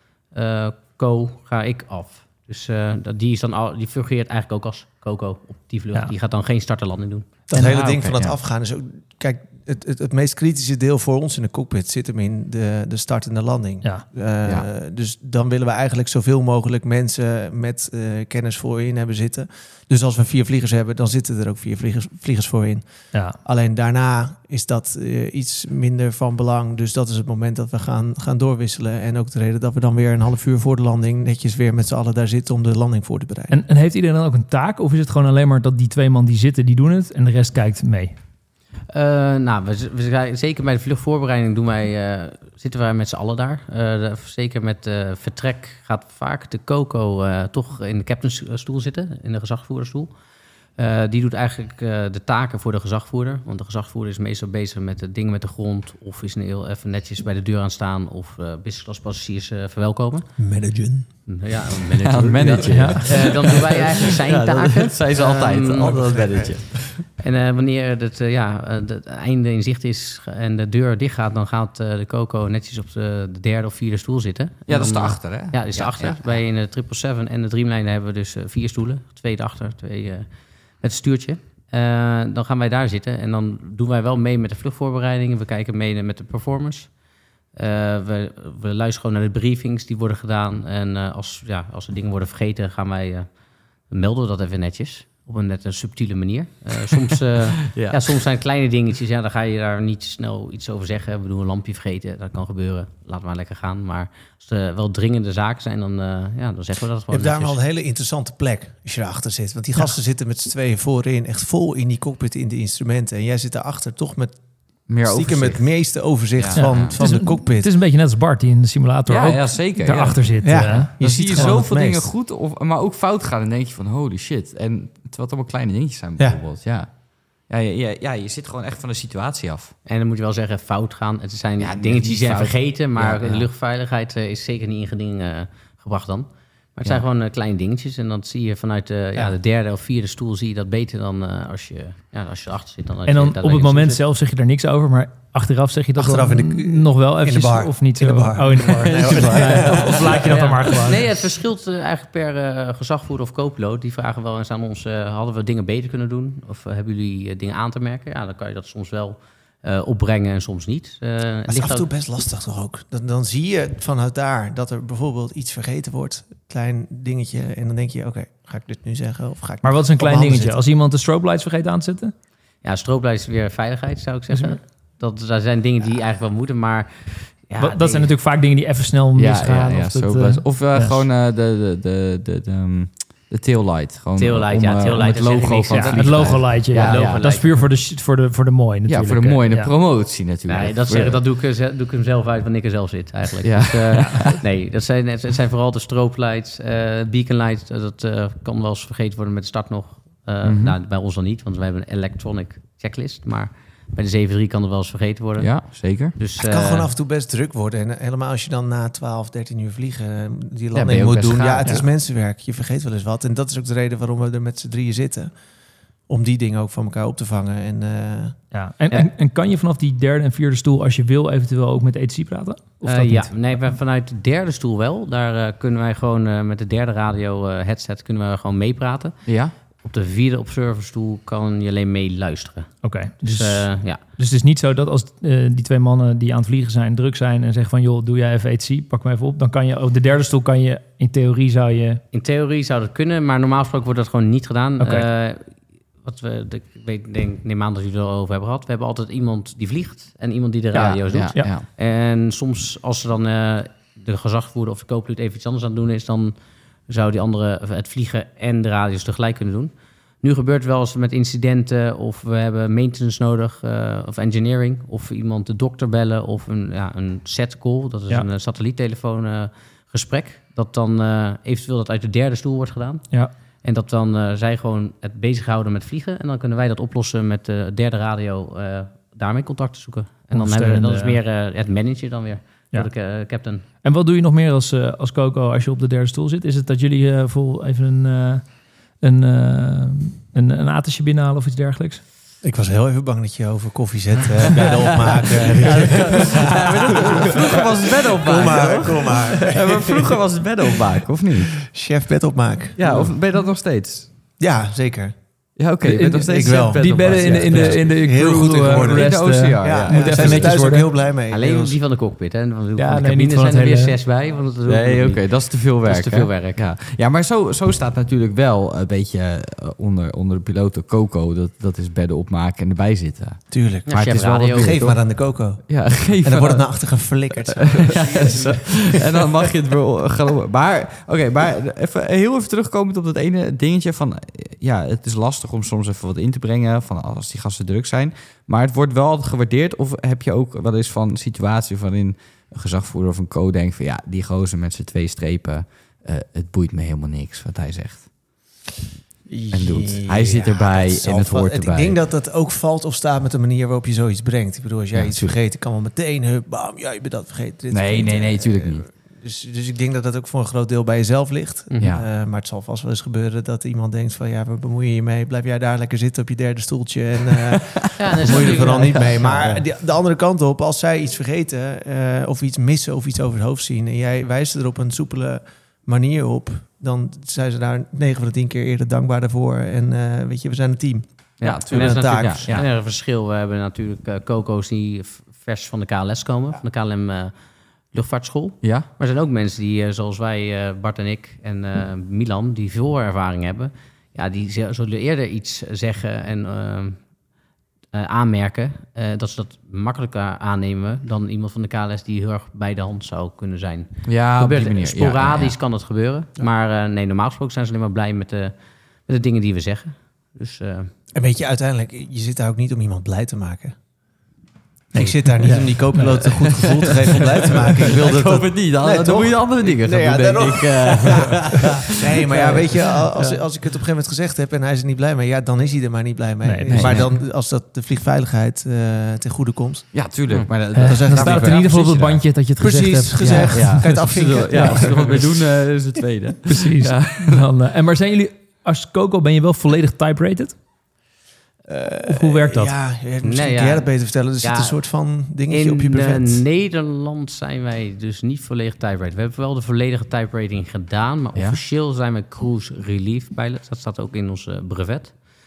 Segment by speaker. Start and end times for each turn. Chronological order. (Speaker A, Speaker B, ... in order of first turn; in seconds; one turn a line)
Speaker A: 0.3-7.3
Speaker B: 7.5-22.9
Speaker C: 7.5-8.0
Speaker D: 7.7-8.3
Speaker B: 23.4-33.6
Speaker C: 33.5-38.1
Speaker A: 38.9-50.1
Speaker A: 50.8-60.3
Speaker B: 60.4-61.1
Speaker A: 61.3-66.2
Speaker D: 61.9-66.9
Speaker C: 62.6-63.0
Speaker B: 65.9-66.6
Speaker A: 67.2-80.2
Speaker D: 74.7-76.2
Speaker A: 80.8-86.9
Speaker A: 87.5-93.3
Speaker A: 93.9-107.6
Speaker D: 97.7-98.0
Speaker B: 107.1-114.3
Speaker D: 114.9-115.7
Speaker B: 115.0-117.7
Speaker D: 116.3-117.0
Speaker C: 116.5-121.5
Speaker D: 119.1-120.3
Speaker B: 120.4-122.1
Speaker D: 121.0-129.7
Speaker A: 129.8-144.0
Speaker D: 131.6-133.5
Speaker C: 143.1-151.0
Speaker B: 146.0-150.4
Speaker D: 148.9-149.8
Speaker A: 150.3-161.8
Speaker B: 161.5-170.6
Speaker C: 169.6-172.1
Speaker A: 172.6-178.1
Speaker C: 174.3-174.6
Speaker C: 177.6-181.0
Speaker D: 179.1-187.2
Speaker A: 184.2-187.6
Speaker C: 185.7-189.7
Speaker D: 188.9-191.2
Speaker A: 190.5-206.9
Speaker D: 193.4-194.4
Speaker C: 194.0-194.2
Speaker D: 200.4-200.8
Speaker D: 205.4-206.2
Speaker B: 206.4-215.3
Speaker D: 210.7-211.8
Speaker B: 216.1-218.4
Speaker C: 218.5-223.7
Speaker A: 222.8-229.2
Speaker D: 229.3-229.5
Speaker A: 229.8-234.0
Speaker C: 232.8-242.0
Speaker A: 242.1-256.3
Speaker C: 244.8-245.1
Speaker D: 250.7-251.7
Speaker A: 256.9-273.1
Speaker A: 273.6-283.6
Speaker C: 280.3-281.2
Speaker C: 283.8-288.4
Speaker C: 289.0-292.0
Speaker B: 292.4-300.2
Speaker D: 295.4-301.6
Speaker B: 301.6-303.1
Speaker D: 302.8-304.1
Speaker B: 304.4-305.1
Speaker D: 305.6-307.9
Speaker C: 305.8-310.9
Speaker B: 306.2-311.8
Speaker D: 308.7-310.6
Speaker A: 311.3-316.6
Speaker C: 312.8-313.9
Speaker D: 314.7-326.7
Speaker B: 323.5-329.2
Speaker A: 323.9-324.8
Speaker D: 327.6-348.1
Speaker B: 349.3-382.6
Speaker D: 349.5-352.0
Speaker D: 354.9-355.3
Speaker D: 357.7-358.9
Speaker A: 361.7-361.9
Speaker D: 361.8-362.0
Speaker A: 368.0-369.6
Speaker A: 381.4-387.3
Speaker D: 381.4-382.7
Speaker A: 387.9-397.0
Speaker D: 388.6-388.9
Speaker A: 397.9-408.5
Speaker D: 404.0-405.5
Speaker A: 409.1-410.9
Speaker B: 411.1-413.8
Speaker C: 414.9-416.3
Speaker B: 414.9-430.0
Speaker D: 416.2-423.4
Speaker C: 426.4-427.0
Speaker D: 426.7-427.1
Speaker D: 429.9-432.2
Speaker C: 430.7-434.8
Speaker B: 430.8-431.7
Speaker B: 432.6-435.3
Speaker D: 433.3-437.5
Speaker C: 436.5-440.6
Speaker B: 441.7-446.4
Speaker C: 442.0-442.7
Speaker A: 443.2-455.2